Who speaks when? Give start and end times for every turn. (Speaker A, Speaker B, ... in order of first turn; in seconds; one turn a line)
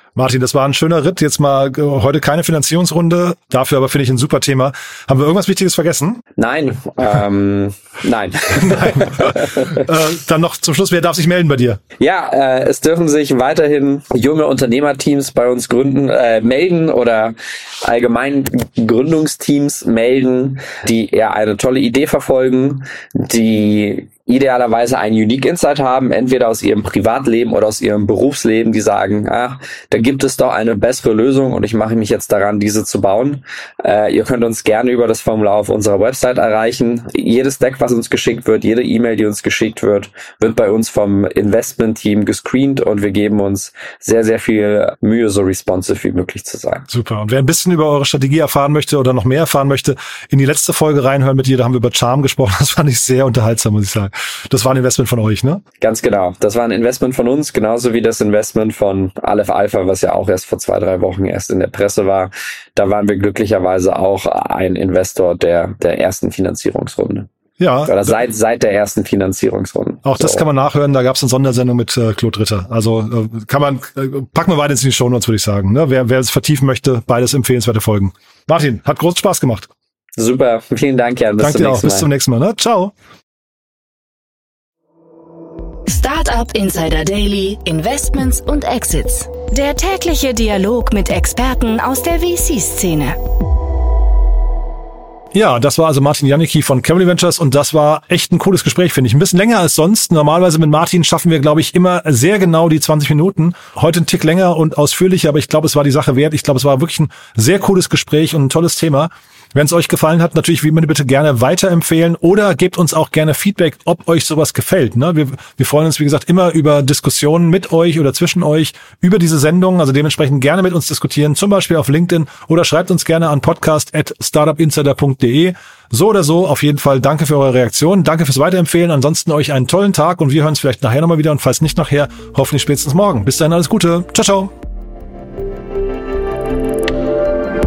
Speaker A: 0.2-6.2
Speaker B: 6.4-9.9
Speaker A: 8.6-11.8
Speaker B: 12.0-46.9
Speaker A: 46.9-55.6
Speaker B: 55.8-67.3
Speaker A: 67.6-68.1
Speaker B: 67.8-70.5
Speaker A: 70.0-79.7
Speaker B: 80.2-82.1
Speaker A: 81.4-82.9
Speaker C: 85.9-93.2
Speaker A: 95.3-134.5